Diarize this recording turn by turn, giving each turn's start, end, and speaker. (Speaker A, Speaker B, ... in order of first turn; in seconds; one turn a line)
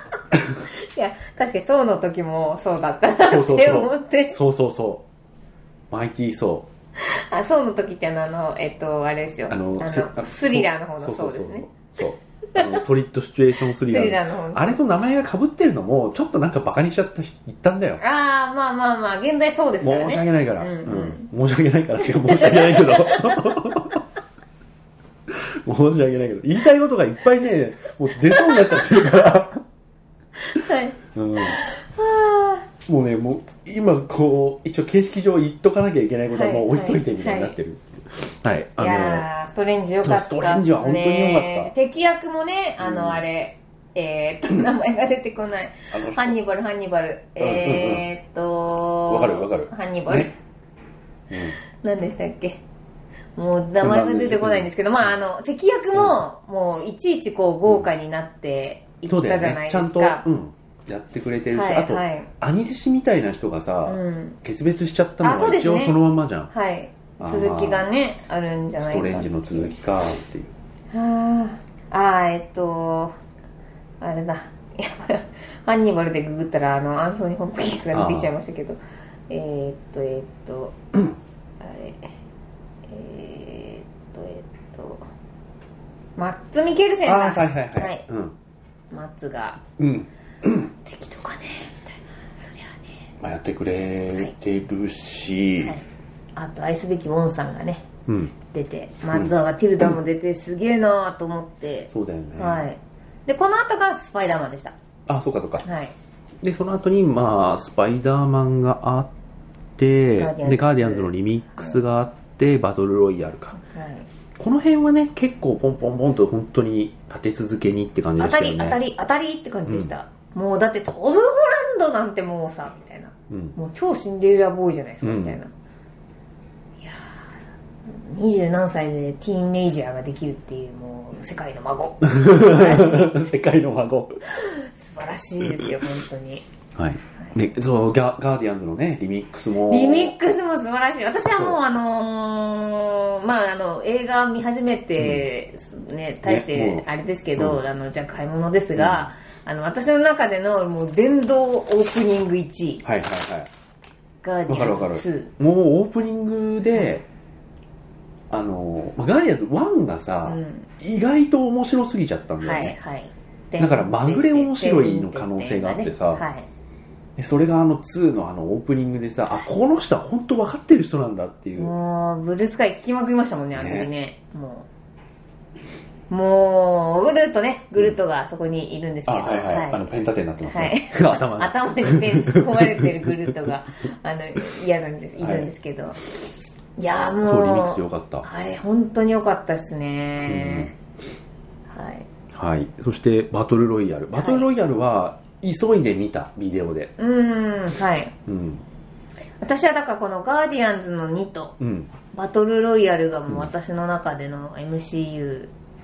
Speaker A: 0.3-0.6
Speaker B: 0.7-4.4
Speaker A: 3.2-5.0
Speaker A: 5.9-6.7
Speaker B: 7.0-11.7
Speaker A: 9.5-18.0
Speaker B: 12.5-12.8
Speaker B: 13.6-14.8
Speaker B: 18.0-21.3
Speaker A: 19.8-24.0
Speaker B: 22.0-23.8
Speaker A: 25.3-29.6
Speaker B: 28.3-29.1
Speaker B: 30.4-32.7
Speaker A: 31.1-31.6
Speaker A: 32.9-39.3
Speaker B: 36.3-37.6
Speaker B: 38.8-50.3
Speaker A: 40.0-41.7
Speaker A: 42.8-43.2
Speaker A: 45.9-46.4
Speaker A: 47.4-48.1
Speaker A: 49.1-50.3
Speaker A: 51.3-51.5
Speaker B: 51.7-52.6
Speaker B: 53.4-60.2
Speaker A: 53.8-55.1
Speaker A: 55.9-56.2
Speaker A: 59.1-66.5
Speaker B: 61.5-62.3
Speaker B: 63.9-64.4
Speaker B: 65.2-66.0
Speaker B: 66.5-69.8
Speaker A: 67.2-67.9
Speaker A: 68.8-70.5
Speaker B: 70.9-73.2
Speaker B: 74.0-80.8
Speaker A: 77.9-78.3
Speaker B: 81.6-82.1
Speaker B: 82.9-85.0
Speaker B: 86.2-88.1
Speaker A: 87.0-88.3
Speaker B: 88.9-89.6
Speaker A: 89.8-90.7
Speaker B: 90.8-93.1
Speaker A: 93.2-95.8
Speaker B: 95.6-97.9
Speaker A: 98.1-98.3
Speaker B: 98.4-104.8
Speaker A: 101.9-102.7
Speaker A: 105.1-105.7
Speaker B: 105.6-106.0
Speaker A: 106.4-109.1
Speaker A: 109.8-113.6
Speaker B: 110.2-111.8
Speaker B: 113.6-114.1
Speaker A: 114.4-118.8
Speaker B: 118.2-125.5
Speaker A: 123.3-123.6
Speaker A: 125.0-125.4
Speaker B: 126.8-127.2
Speaker B: 127.9-133.2
Speaker A: 132.1-134.2
Speaker B: 134.3-136.5
Speaker A: 135.4-135.9
Speaker A: 136.8-140.2
Speaker B: 139.6-152.8
Speaker A: 145.0-145.2
Speaker A: 146.2-146.9
Speaker A: 148.8-149.1
Speaker A: 152.8-153.5
Speaker B: 154.2-155.3
Speaker A: 154.5-157.1
Speaker B: 156.7-157.0
Speaker A: 158.3-162.8
Speaker B: 160.2-160.7
Speaker B: 162.4-166.5
Speaker A: 163.6-166.2
Speaker A: 167.2-171.7
Speaker B: 171.6-174.7
Speaker A: 173.6-173.9
Speaker B: 176.1-179.9
Speaker A: 179.1-183.5
Speaker B: 180.4-186.0
Speaker A: 185.2-185.5
Speaker B: 186.8-190.8
Speaker A: 187.2-188.3
Speaker A: 190.2-190.7
Speaker B: 191.7-192.1
Speaker A: 192.3-196.9
Speaker B: 194.2-194.5
Speaker B: 197.0-198.1
Speaker A: 198.3-198.6
Speaker B: 199.4-201.6
Speaker A: 201.6-201.9
Speaker B: 202.1-205.5